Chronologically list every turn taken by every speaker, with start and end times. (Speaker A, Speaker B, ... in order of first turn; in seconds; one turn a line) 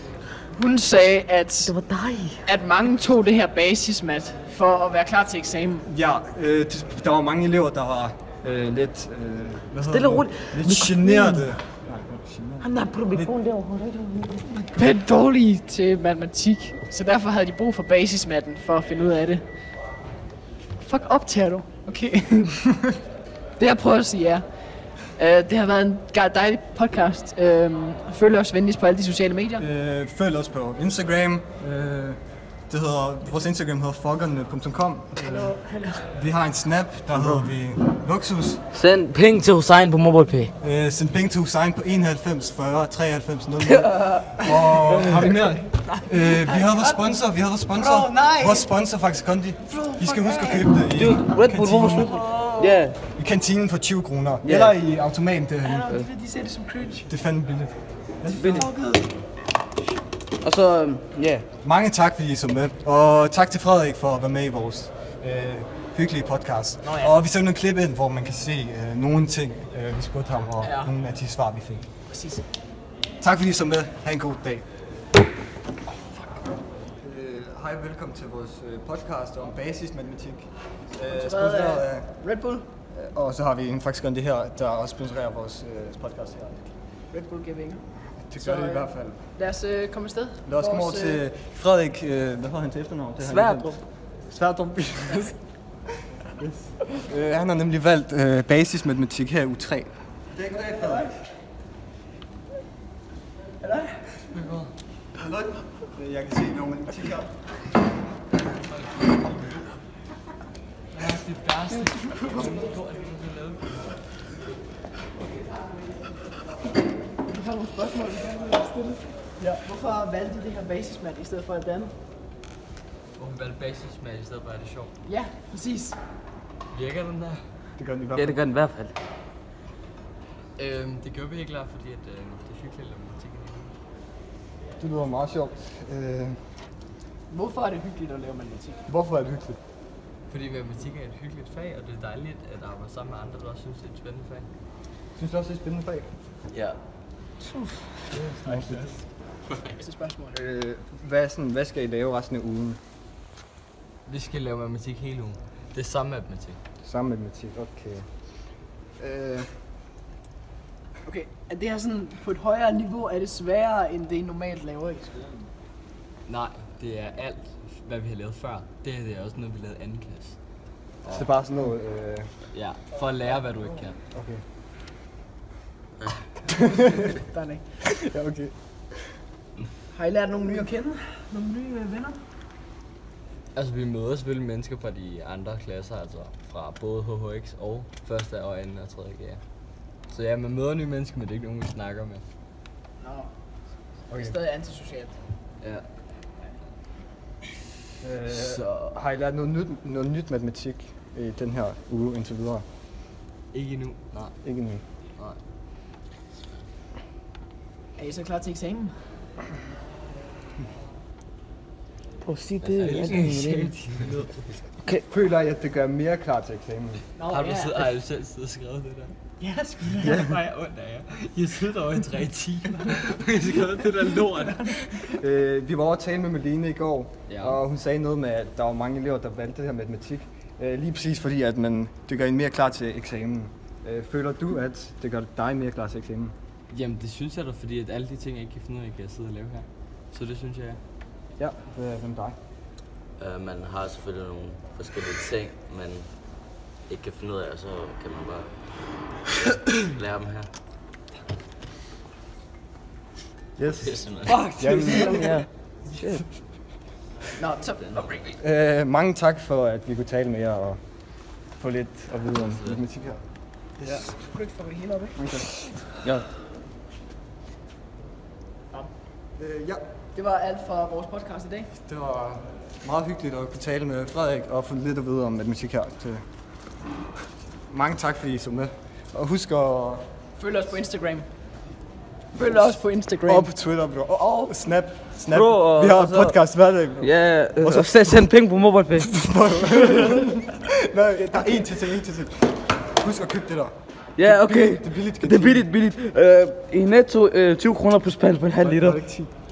Speaker A: 0.5-1.7
Speaker B: 1.7-2.4
Speaker A: 2.5-5.9
Speaker C: 5.9-13.3
Speaker B: 9.8-11.5
Speaker B: 12.6-14.4
Speaker A: 14.5-19.4
Speaker A: 20.8-22.6
Speaker A: 23.6-24.4
Speaker A: 25.1-29.7
Speaker C: 29.6-35.5
Speaker B: 35.3-35.8
Speaker C: 36.1-38.6
Speaker B: 37.1-37.5
Speaker B: 38.7-40.5
Speaker C: 40.6-52.2
Speaker B: 43.7-44.3
Speaker A: 46.5-47.0
Speaker A: 47.8-48.7
Speaker A: 49.7-50.8
Speaker B: 51.0-53.0
Speaker A: 52.2-52.8
Speaker C: 53.2-55.9
Speaker B: 54.4-54.7
Speaker A: 55.6-57.1
Speaker C: 57.1-58.7
Speaker B: 58.3-58.7
Speaker A: 58.3-59.1
Speaker B: 60.4-61.5
Speaker C: 61.6-71.8
Speaker A: 66.8-67.1
Speaker A: 70.6-70.9
Speaker A: 72.1-72.4
Speaker C: 73.2-74.7
Speaker C: 77.0-82.1
Speaker A: 81.1-82.7
Speaker C: 82.9-86.8
Speaker A: 87.1-87.8
Speaker C: 88.2-89.2
Speaker A: 88.3-91.2
Speaker C: 90.5-95.4
Speaker B: 93.2-93.8
Speaker C: 96.3-101.2
Speaker A: 103.6-104.1
Speaker D: 104.3-104.7
Speaker C: 105.2-107.3
Speaker D: 108.5-109.7
Speaker D: 110.9-114.0
Speaker A: 111.9-112.4
Speaker A: 117.3-121.9
Speaker D: 123.2-125.0
Speaker A: 125.0-126.0
Speaker D: 126.7-127.4
Speaker C: 127.8-128.4
Speaker B: 128.2-128.9
Speaker D: 130.6-133.8
Speaker C: 134.8-136.4
Speaker A: 137.3-138.8
Speaker C: 138.9-139.6
Speaker D: 140.3-144.5
Speaker C: 145.2-146.1
Speaker C: 148.1-149.0
Speaker D: 148.4-148.9
Speaker A: 149.7-150.4
Speaker C: 150.3-152.8
Speaker D: 154.1-156.6
Speaker C: 156.8-158.1
Speaker C: 159.0-159.5
Speaker A: 161.1-165.4
Speaker D: 166.3-170.4
Speaker D: 171.0-171.3
Speaker C: 171.0-172.3
Speaker D: 172.5-174.0
Speaker C: 174.1-174.4
Speaker A: 176.6-177.6
Speaker C: 177.8-178.5
Speaker A: 179.9-182.2
Speaker D: 183.5-189.4
Speaker D: 190.1-192.2
Speaker A: 193.0-193.3
Speaker C: 194.1-194.3
Speaker A: 194.1-195.2
Speaker C: 198.0-202.6
Speaker D: 198.3-198.9
Speaker D: 203.5-204.4
Speaker C: 204.4-204.8
Speaker A: 208.0-208.9
Speaker B: 212.2-213.8
Speaker D: 212.6-214.5
Speaker C: 215.0-217.0
Speaker A: 217.2-217.9
Speaker D: 217.3-219.2
Speaker A: 219.4-220.4
Speaker D: 219.9-225.0
Speaker C: 225.1-236.3
Speaker D: 227.3-227.6
Speaker D: 236.7-240.8
Speaker C: 241.4-242.3
Speaker E: 243.2-246.2
Speaker E: 246.9-250.5
Speaker C: 253.6-255.3
Speaker E: 253.8-254.4
Speaker B: 254.3-255.5
Speaker A: 254.8-255.4
Speaker A: 257.4-258.0
Speaker E: 257.9-258.4
Speaker C: 258.4-260.8
Speaker C: 261.6-263.2
Speaker A: 263.8-265.2
Speaker C: 265.1-265.7
Speaker C: 269.4-269.8
Speaker A: 270.1-271.7
Speaker C: 271.9-276.2
Speaker C: 277.7-280.0
Speaker A: 280.4-281.2
Speaker A: 282.4-283.5
Speaker C: 282.4-288.3
Speaker A: 284.2-284.5
Speaker B: 285.3-286.4
Speaker B: 287.0-289.1
Speaker C: 289.0-295.7
Speaker B: 294.2-299.0
Speaker C: 298.6-299.3